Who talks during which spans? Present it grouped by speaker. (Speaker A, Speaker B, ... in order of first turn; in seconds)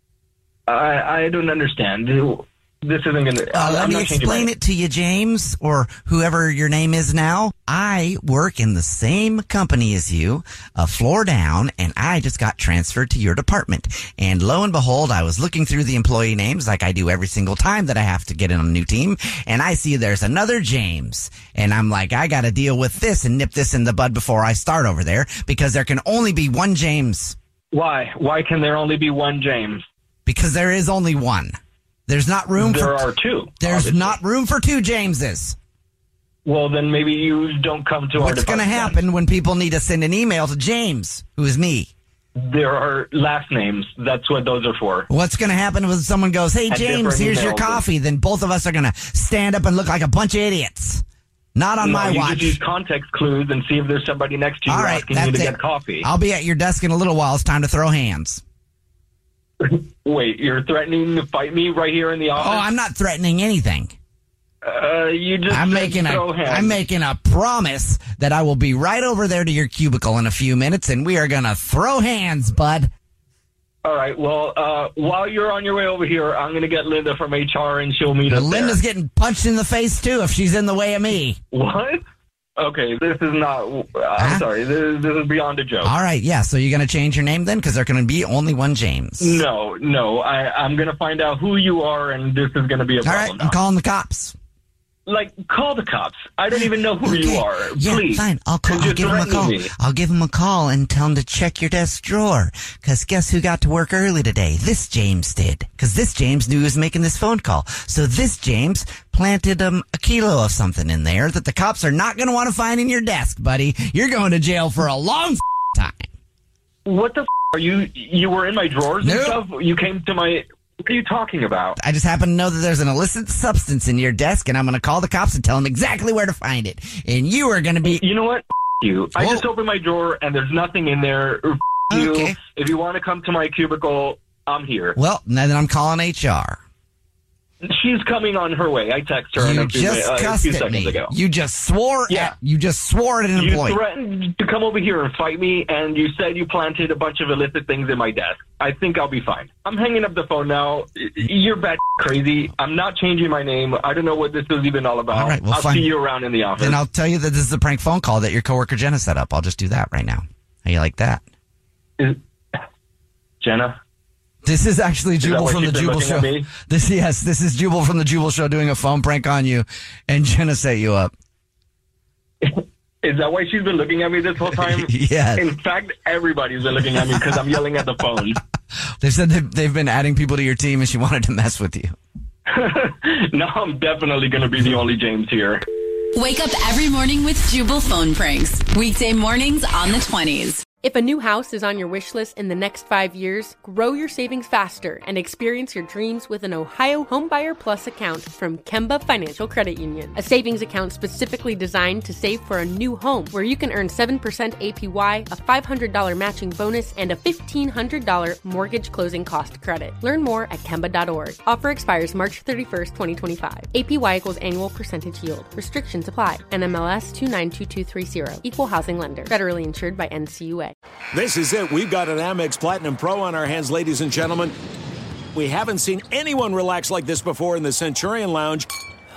Speaker A: 0.7-4.5, 27.7-29.8, 32.6-34.1, 36.4-39.0, 42.4-45.1, 46.7-47.8, 51.8-56.1, 59.6-62.7, 64.6-66.8, 73.8-78.8, 81.5-82.0, 82.6-85.9, 89.2-93.5, 95.0-99.7, 116.8-121.8, 127.9-134.9, 137.6-141.1, 143.3-156.8, 163.4-163.8, 165.2-166.5, 172.4-178.4, 182.5-185.6
Speaker B: 3.5-27.4, 30.2-31.5, 32.1-33.1, 33.6-35.6, 38.1-41.9, 45.1-51.0, 51.5-52.6, 54.6-58.4, 62.4-63.9, 65.5-72.9, 78.3-81.4, 84.2-84.5, 85.8-89.4, 93.0-94.3, 96.5-116.1, 119.0-119.4, 121.8-128.0, 129.2-129.4, 131.9-132.3, 134.9-136.6, 139.4-143.8, 155.1-155.9, 156.6-161.2, 164.4-171.1, 174.6-175.4, 179.0-181.9
Speaker C: 186.1-190.6
Speaker D: 190.8-220.7
Speaker E: 221.1-224.5, 225.3-228.7